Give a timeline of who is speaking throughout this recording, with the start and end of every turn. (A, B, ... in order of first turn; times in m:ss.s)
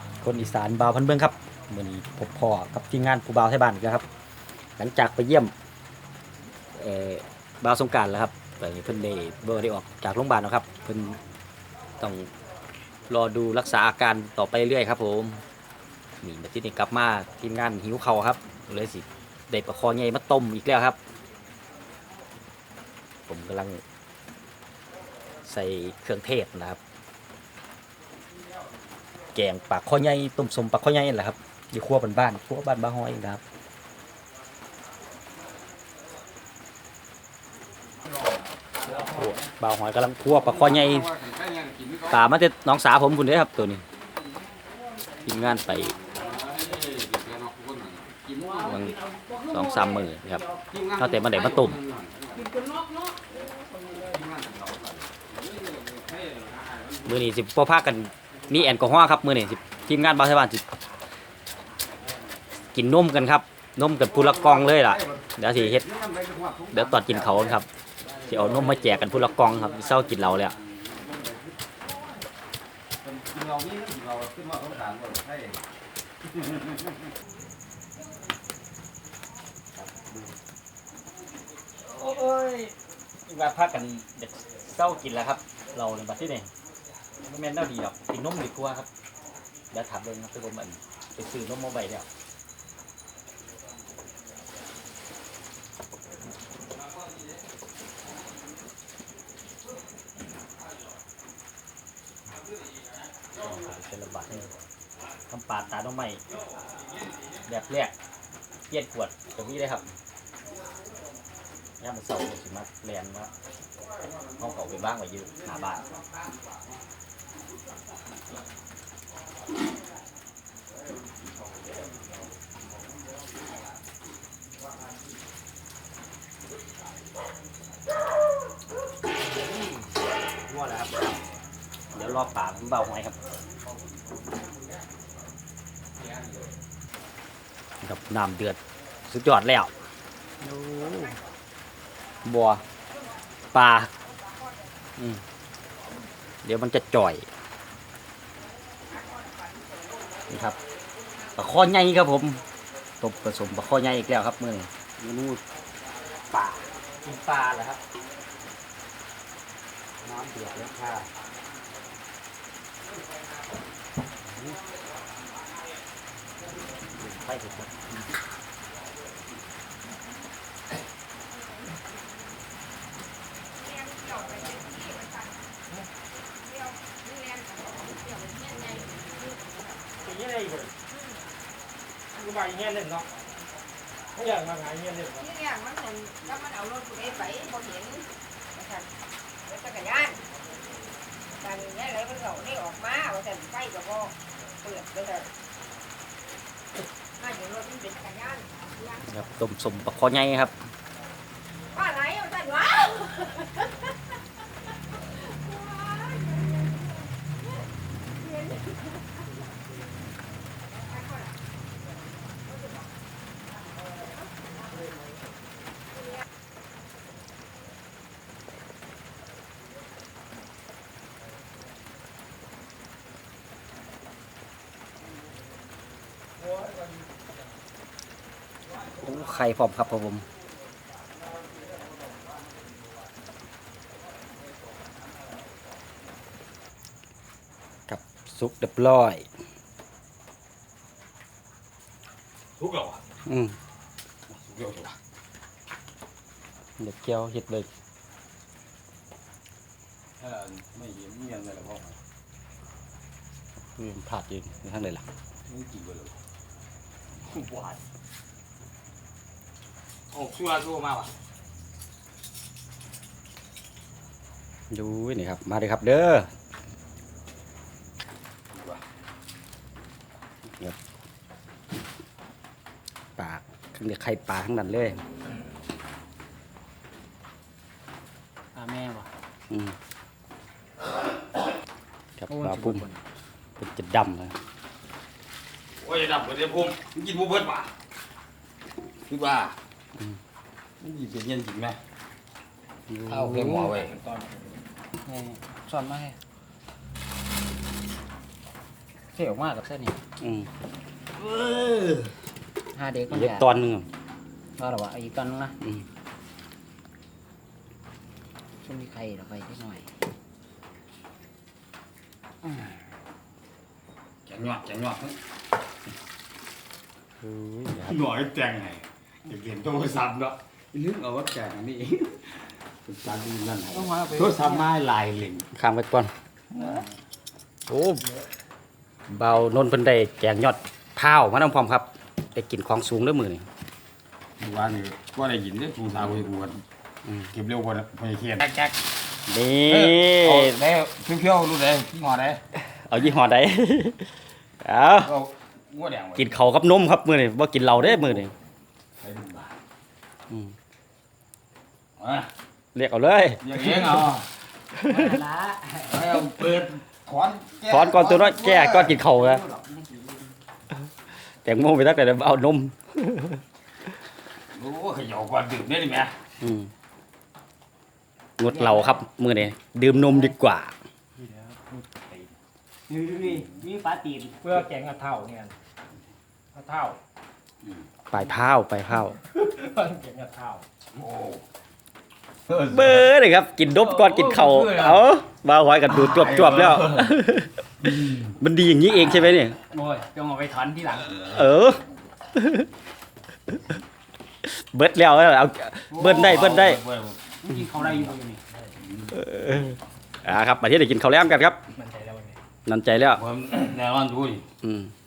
0:00.2-0:04.0 A
0:04.8-0:05.5 A
0:06.7-0:11.2 A
0:12.0-0:12.3 A
0:13.1-0:15.4 A
0:16.2-0:21.0 A
0:23.3-0:23.8 A
0:25.4-0:26.8 A
0:29.3-0:33.4 A
0:38.9-0:41.2 A
0:40.3-0:42.3 B
0:42.1-0:43.8 A
0:45.2-0:46.0 A
0:46.0-0:48.8 B
0:48.3-0:50.7 C
0:48.6-0:48.9 A
0:49.5-0:50.4 A
0:50.7-0:52.4 B
0:51.0-0:51.8 A
0:52.3-0:54.1 C
0:54.0-0:57.2 B
0:57.0-1:00.6 A
1:02.7-1:05.8 A
1:04.0-1:11.5 B
1:06.7-1:07.7 A
1:08.2-1:10.5 A
1:13.0-1:15.6 B
1:19.8-1:20.2 A
1:21.8-1:22.7 A
1:23.2-1:26.5 A
1:27.2-1:28.9 A
1:29.7-1:32.1 A
1:43.3-1:44.5 A
1:45.3-1:46.2 A
1:47.4-1:47.9 A
1:48.7-1:49.8 A
1:51.8-1:53.3 A
1:54.4-1:55.9 A
2:09.3-2:09.9 A
2:10.5-2:11.1 A
2:11.9-2:13.2 A
2:17.8-2:19.7 A
2:20.4-2:21.2 A
2:22.2-2:22.6 A
2:23.5-2:23.9 A
2:24.3-2:24.6 D
2:26.4-2:27.2 A
2:28.9-2:30.2 D
2:30.3-2:30.6 A
2:31.4-2:32.4 A
2:33.0-2:35.4 A
2:36.3-2:37.8 A
2:40.0-2:41.1 A
2:47.0-2:47.9 A
2:54.0-2:55.0 D
2:56.7-2:59.0 D
3:00.1-3:00.7 E
3:02.3-3:03.0 E
3:04.2-3:05.1 E
3:05.1-3:08.0 D
3:08.6-3:08.8 D
3:09.5-3:10.2 D
3:11.4-3:15.3 D
3:17.2-3:18.5 D
3:19.1-3:20.5 A
3:21.7-3:23.6 D
3:25.7-3:26.2 D
3:48.9-3:50.2 A
3:57.9-3:59.3 A
4:02.6-4:03.0 B
4:03.2-4:03.6 A
4:04.3-4:04.9 B
4:06.8-4:07.7 A
4:10.2-4:12.0 B
4:13.8-4:15.0 A
4:15.5-4:16.2 B
4:17.2-4:17.8 B
4:20.1-4:21.1 B
4:24.7-4:26.3 A
4:28.5-4:28.8 B
4:33.2-4:35.0 A
4:38.5-4:39.1 C
4:39.5-4:39.8 A
4:42.2-4:42.9 A
4:42.3-4:43.0 C
4:43.6-4:44.4 A
4:45.8-4:47.7 B
4:49.1-4:49.6 B
4:50.8-4:51.8 B
4:52.9-4:53.7 A
4:53.1-4:54.0 B
4:53.1-4:53.9 C
4:55.0-4:56.2 C
4:59.1-5:00.0 C
5:00.2-5:00.5 A
5:01.6-5:02.0 B
5:02.7-5:03.5 C
5:03.1-5:03.8 A
5:04.6-5:05.6 C
5:08.6-5:09.9 C
5:14.2-5:15.2 B
5:17.2-5:18.0 A
5:17.8-5:25.5 B
5:23.7-5:24.6 C
5:25.5-5:26.7 A
5:27.7-5:28.1 A
5:29.1-5:33.5 A
5:34.4-5:36.6 B
5:37.3-5:38.8 B
5:39.3-5:40.6 A
5:39.7-5:42.4 B
5:42.5-5:45.1 A
5:45.0-5:46.4 B
5:46.2-5:48.3 A
5:49.0-5:49.6 B
5:52.0-5:52.3 B
5:52.7-5:54.0 A
5:53.4-5:54.3 B
5:54.7-5:55.2 A
5:54.8-5:56.2 C
5:55.9-5:59.0 B
5:57.7-5:59.4 A
5:58.9-6:00.4 C
6:01.4-6:03.4 A
6:04.5-6:06.2 B
6:06.4-6:06.7 A
6:08.4-6:10.7 A
6:08.4-6:09.0 C
6:10.0-6:10.3 C
6:11.2-6:12.2 E
6:12.9-6:14.5 C
6:14.4-6:15.6 E
6:16.5-6:17.0 E
6:18.1-6:19.2 A
6:19.3-6:20.6 E
6:20.9-6:21.4 B
6:22.5-6:29.6 A
6:23.8-6:25.0 B
6:25.9-6:27.1 B
6:27.9-6:28.2 B
6:28.8-6:31.3 C
6:31.1-6:31.5 B
6:31.2-6:32.7 A
6:34.4-6:36.8 A
6:35.9-6:36.4 C
6:35.9-6:38.2 B
6:37.4-6:38.6 C
6:38.9-6:39.2 B
6:39.1-6:41.6 A
6:41.7-6:42.4 E
6:42.6-6:43.2 A
6:43.1-6:44.4 B
6:44.6-6:44.9 A